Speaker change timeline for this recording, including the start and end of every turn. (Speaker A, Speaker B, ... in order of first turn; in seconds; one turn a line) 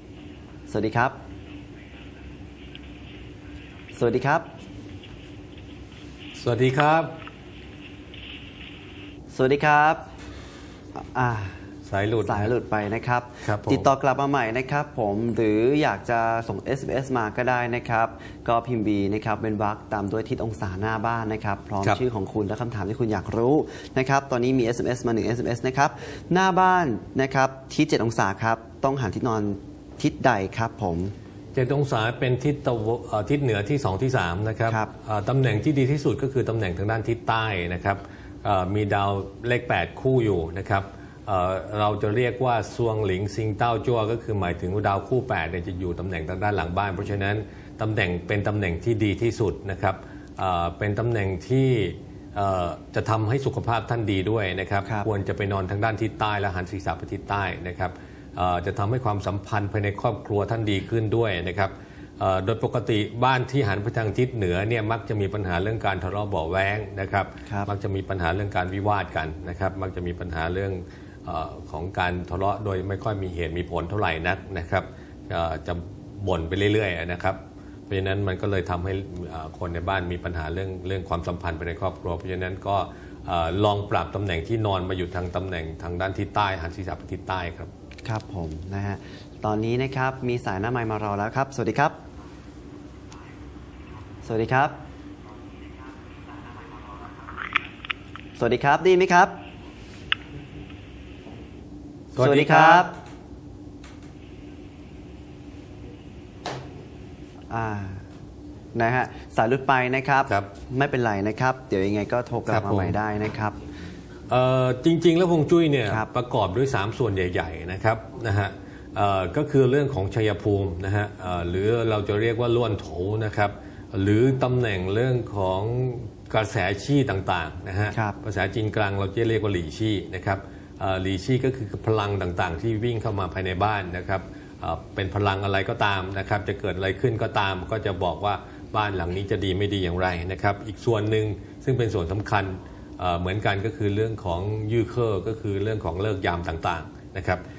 Speaker A: 0.7-1.2
Speaker A: 4.0-4.5
Speaker B: 6.4-7.1
Speaker A: 9.3-10.0
Speaker A: 11.0-11.6
Speaker B: 11.9-12.5
Speaker A: 12.2-31.1
Speaker B: 13.4-13.9
Speaker B: 31.5-87.7
Speaker A: 88.0-92.0
Speaker A: 94.2-94.8
Speaker A: 98.4-99.4
Speaker B: 102.2-102.9
Speaker A: 102.2-102.9
Speaker A: 107.5-108.0
Speaker A: 108.7-113.6
Speaker B: 112.5-113.0
Speaker B: 114.3-147.4